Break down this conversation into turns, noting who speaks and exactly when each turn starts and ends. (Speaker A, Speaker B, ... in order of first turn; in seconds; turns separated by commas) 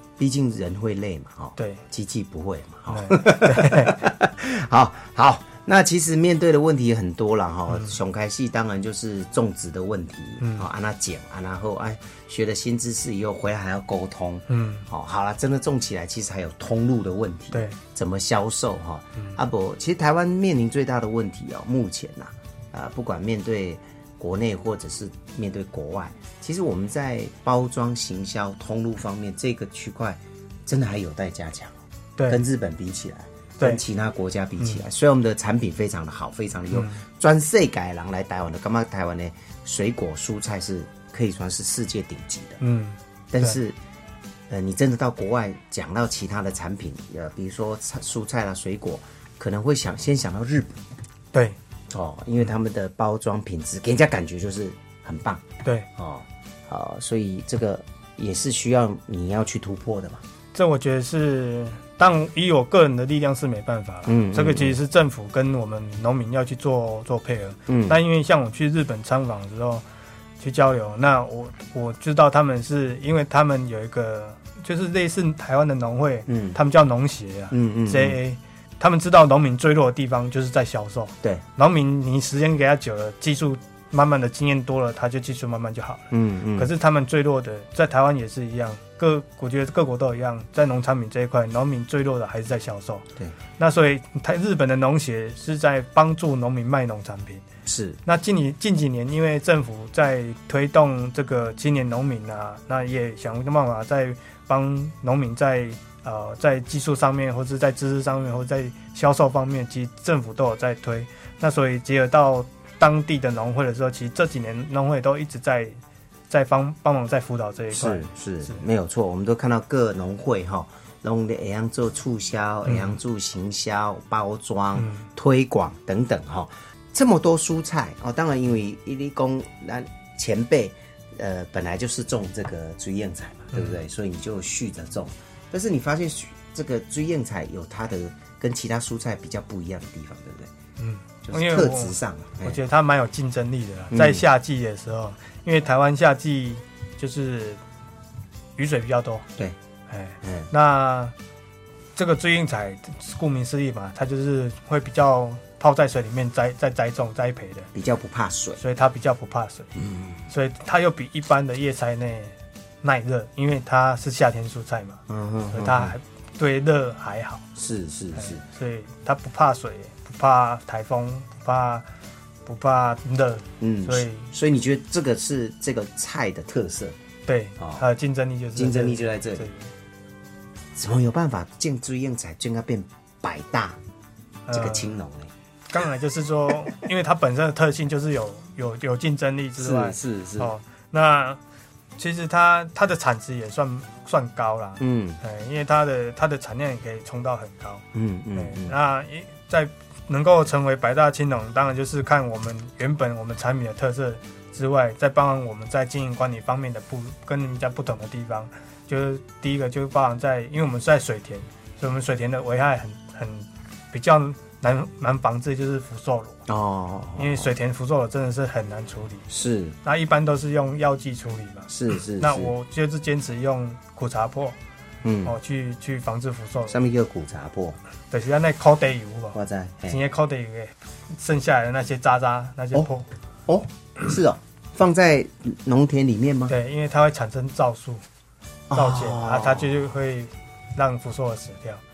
Speaker A: 0.2-42.6, Speaker B: 1.6-1.8, Speaker B: 2.9-4.0, Speaker B: 7.7-8.0, Speaker B: 10.4-10.7, Speaker B: 14.5-14.9, Speaker B: 17.5-17.8, Speaker B: 36.7-37.0, Speaker B: 42.6-43.6, Speaker A: 43.3-43.8, Speaker A: 44.5-50.8, Speaker A: 51.9-60.2, Speaker B: 60.5-69.8, Speaker A: 64.1-64.8, Speaker A: 67.7-68.0, Speaker B: 70.4-93.0, Speaker A: 76.3-76.6, Speaker A: 77.5-78.2, Speaker A: 86.1-86.7, Speaker B: 93.6-97.4, Speaker A: 97.7-98.0, Speaker B: 98.0-115.8, Speaker B: 116.3-118.6, Speaker A: 117.7-140.5, Speaker B: 122.7-123.0, Speaker B: 124.8-125.1, Speaker B: 133.5-133.8, Speaker B: 140.8-147.6, Speaker A: 141.2-142.6, Speaker A: 143.9-144.2, Speaker B: 148.6-149.3, Speaker B: 149.9-151.1, Speaker A: 150.2-150.5, Speaker B: 152.0-157.7, Speaker A: 157.7-158.6, Speaker B: 158.6-159.7, Speaker A: 159.8-160.3, Speaker B: 160.3-167.4, Speaker A: 165.1-165.9, Speaker A: 167.6-168.4, Speaker B: 168.2-171.8, Speaker B: 172.5-174.3, Speaker A: 173.6-177.0, Speaker B: 177.3-179.7, Speaker A: 177.6-177.8, Speaker A: 178.6-179.5, Speaker A: 180.8-183.8, Speaker B: 184.5-184.9, Speaker A: 184.5-185.3, Speaker B: 185.7-191.4, Speaker A: 189.6-190.5, Speaker B: 192.0-216.4, Speaker A: 194.8-195.2, Speaker A: 197.9-198.8, Speaker A: 216.5-217.5, Speaker B: 217.2-219.3, Speaker A: 219.3-219.8, Speaker B: 219.8-224.6, Speaker A: 221.7-222.5, Speaker A: 225.0-225.3, Speaker B: 225.2-226.8, Speaker A: 226.7-227.8, Speaker B: 228.1-233.1, Speaker A: 229.3-230.0, Speaker A: 233.5-236.5, Speaker B: 236.5-238.0, Speaker A: 238.7-239.8, Speaker B: 238.7-241.8